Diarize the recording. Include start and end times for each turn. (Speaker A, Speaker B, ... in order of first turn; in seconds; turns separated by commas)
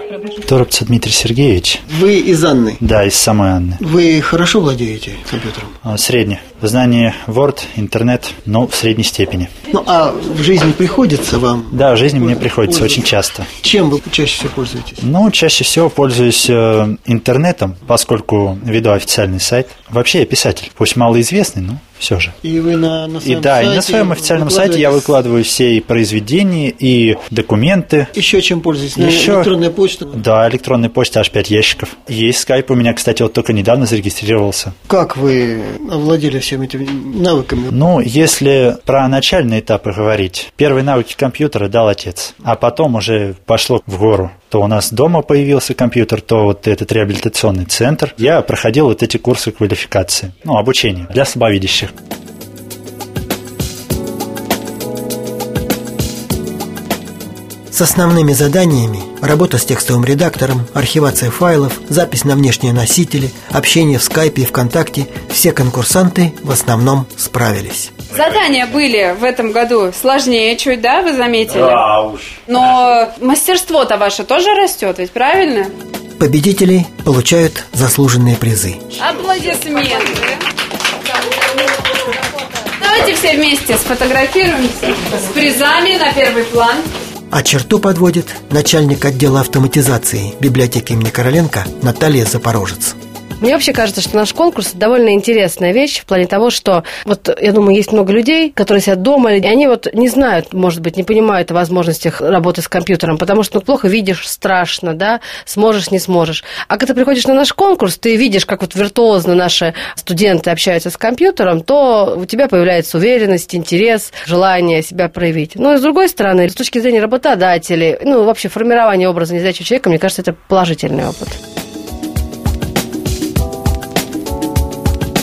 Speaker A: 0.4-1.8, Speaker B: 1.9-2.8, Speaker A: 2.8-3.8, Speaker B: 3.8-5.7, Speaker A: 5.8-9.5, Speaker B: 9.7-15.0, Speaker A: 11.7-13.5, Speaker A: 15.0-22.3, Speaker B: 22.4-25.1, Speaker A: 23.2-28.1, Speaker B: 28.1-30.1, Speaker A: 28.9-29.5, Speaker A: 30.1-34.7, Speaker B: 34.9-37.7, Speaker A: 37.7-51.9, Speaker B: 57.7-67.9, Speaker C: 68.1-75.7, Speaker B: 76.2-78.8, Speaker C: 79.0-80.4, Speaker C: 82.8-86.9, Speaker B: 87.3-93.0, Speaker D: 93.4-121.4